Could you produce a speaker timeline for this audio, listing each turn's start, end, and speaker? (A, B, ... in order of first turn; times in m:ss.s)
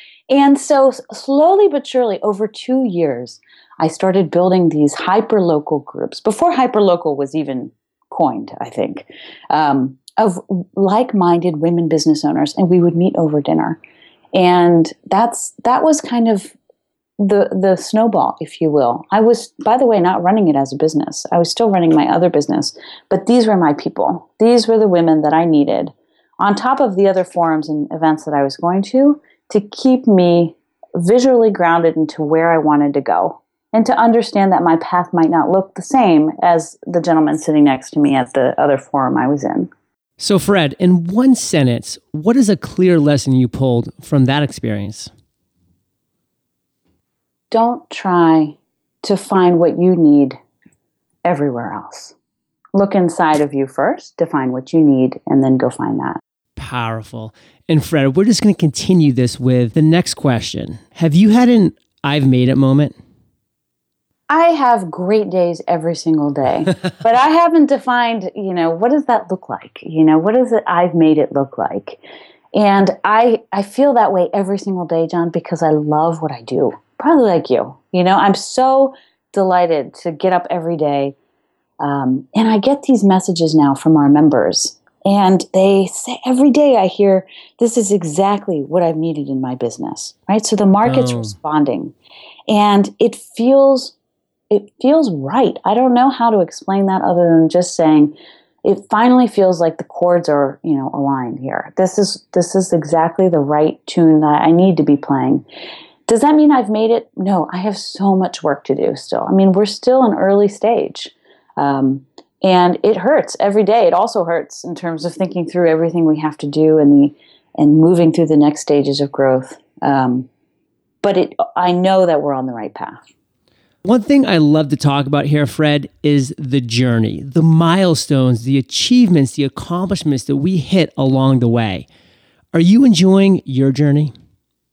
0:00.3-0:13.8 A
0:14.3-0:16.5 A
0:17.2-0:39.7 A
0:40.2-0:45.1 B
0:47.5-0:50.4 A
0:51.2-0:52.1 A
0:52.7-0:56.2 A
0:56.6-1:03.0 B
1:04.3-1:12.0 A
1:12.5-1:21.1 A
1:21.8-1:31.9 A
1:30.8-1:31.4 B
1:32.5-1:33.9 A
1:34.5-1:45.4 A
1:46.1-2:00.3 A
2:01.0-2:03.0 A
2:03.8-2:11.8 B
2:12.5-2:14.1 B